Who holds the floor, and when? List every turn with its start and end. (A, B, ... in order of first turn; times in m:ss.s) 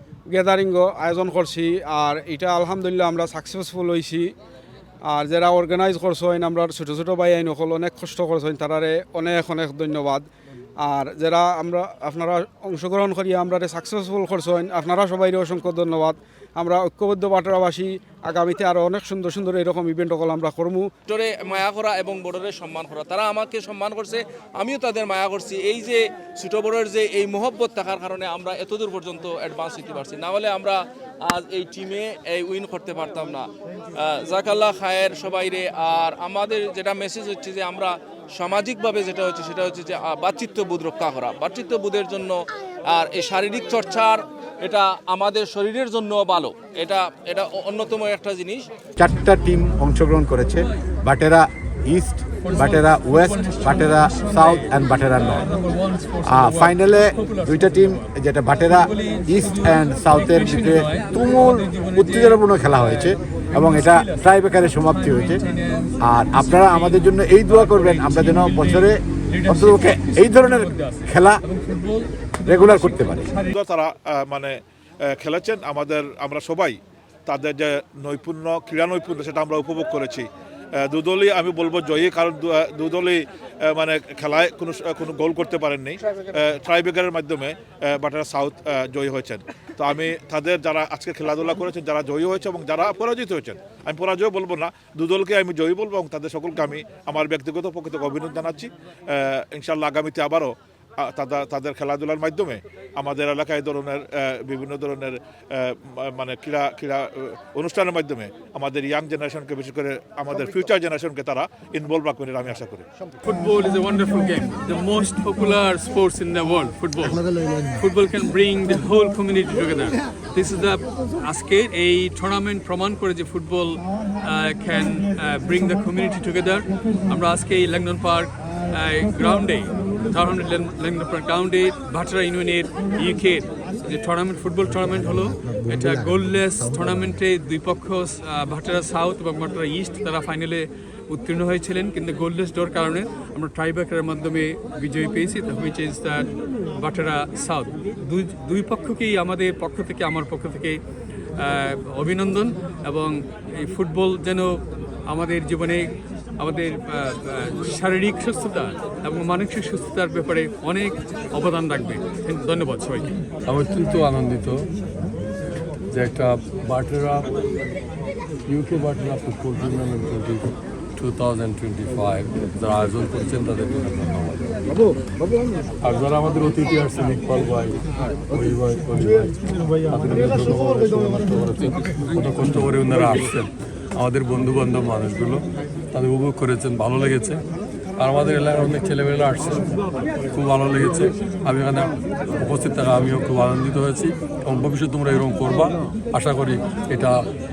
0:00.3-0:04.3 A
0:05.0-0:10.2 A
0:10.8-0:20.9 A
0:21.1-0:42.3 B
0:42.9-0:48.7 B
0:49.0-0:55.5 C
0:52.4-0:58.0 D
0:56.2-1:05.4 C
0:58.8-1:04.3 D
1:04.8-1:13.5 D
1:06.0-1:11.4 C
1:12.4-1:13.3 C
1:13.4-1:14.5 E
1:15.0-1:20.3 E
1:20.8-1:52.8 E
1:53.2-2:30.8 D
2:31.4-2:43.2 D
2:43.4-2:44.6 F
2:45.9-2:47.3 F
2:48.5-2:54.6 F
2:55.8-3:07.4 F
3:08.0-3:09.8 F
3:10.3-3:17.1 F